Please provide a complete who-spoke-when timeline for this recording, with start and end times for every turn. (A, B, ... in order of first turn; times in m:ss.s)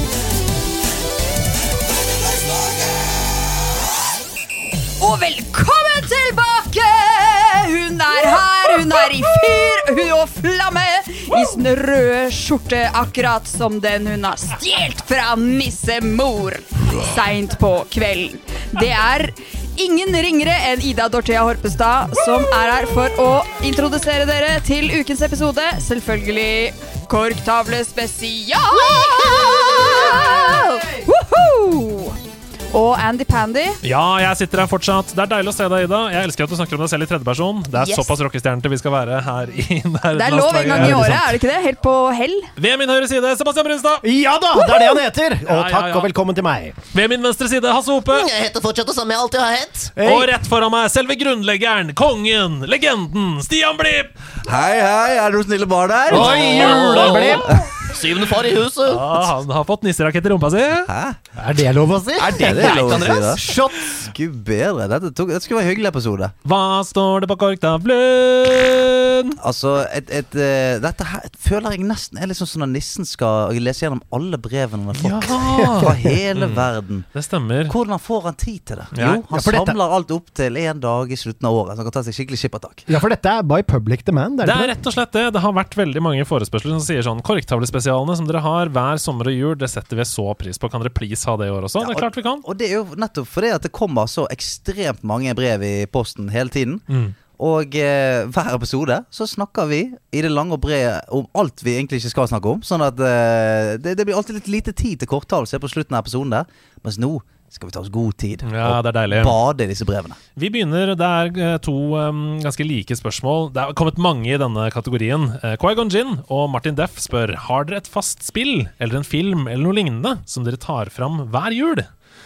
0:05.0-0:32.2 A
0:32.7-0:33.8 A
0:33.8-0:41.3 B
0:37.7-0:38.1 A
0:40.1-0:42.5 A
0:40.7-0:41.2 C
0:42.6-0:44.0 B
0:44.0-0:46.8 C
0:45.4-0:46.1 B
0:46.9-0:48.3 B
0:48.3-0:49.9 D
0:49.9-0:50.3 C
0:50.0-0:54.1 B
0:54.3-0:57.8 E
0:56.1-0:57.7 C
0:56.1-0:59.1 D
0:56.8-0:57.2 B
0:58.8-1:00.9 B
1:00.9-1:01.2 E
1:01.4-1:04.1 C
1:02.2-1:03.4 D
1:02.3-1:06.3 E
1:06.4-1:09.4 B
1:09.4-1:17.1 E
1:14.9-1:17.7 B
1:15.6-1:16.1 C
1:17.7-1:22.9 E
1:18.9-1:19.2 B
1:19.3-1:19.8 C
1:22.9-1:24.8 C
1:24.4-1:32.4 B
1:31.8-1:50.2 E
1:36.9-1:37.2 B
1:48.4-1:49.4 B
1:50.4-2:01.9 B